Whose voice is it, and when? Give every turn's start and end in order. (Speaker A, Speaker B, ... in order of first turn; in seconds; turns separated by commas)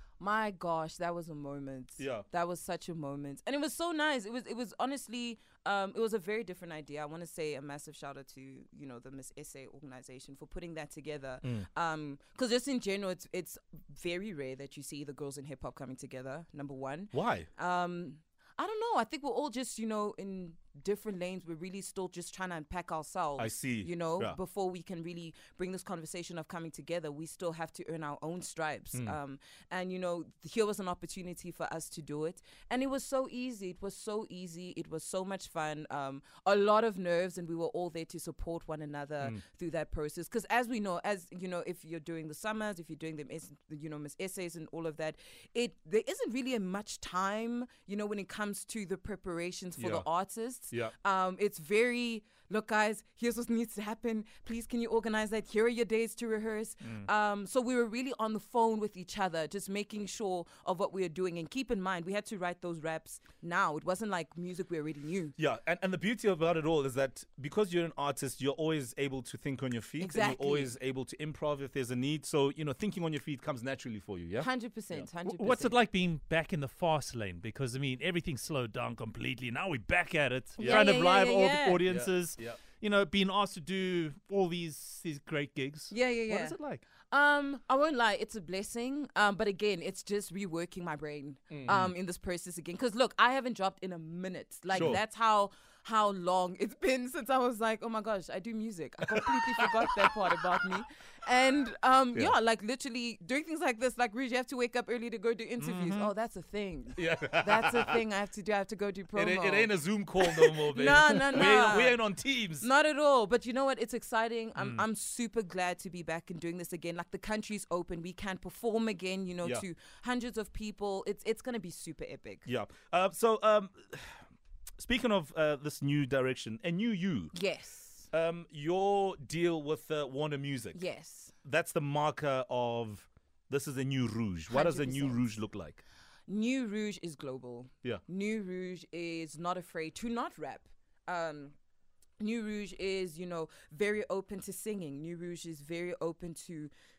Speaker A: 0.2-65.3, Speaker B: 2.0-2.3, Speaker B: 17.1-17.5, Speaker B: 23.4-24.4, Speaker B: 49.8-50.1, Speaker B: 65.4-75.1, Speaker A: 70.0-70.7, Speaker A: 74.4-75.8, Speaker C: 75.2-86.8, Speaker B: 80.6-80.9, Speaker A: 80.6-81.8, Speaker B: 81.8-82.6, Speaker A: 85.9-86.6, Speaker A: 87.1-109.7, Speaker B: 91.5-91.9, Speaker B: 94.7-95.0, Speaker B: 99.2-99.7, Speaker C: 105.6-106.1, Speaker B: 107.0-108.0, Speaker B: 109.2-112.7, Speaker A: 110.3-112.0, Speaker A: 112.6-122.5, Speaker C: 114.6-114.8, Speaker B: 122.5-124.3, Speaker B: 124.8-127.3, Speaker A: 127.3-128.1, Speaker B: 128.1-130.8, Speaker A: 130.7-131.3, Speaker B: 131.4-135.8, Speaker A: 134.5-135.3, Speaker A: 136.3-141.6, Speaker A: 142.2-146.7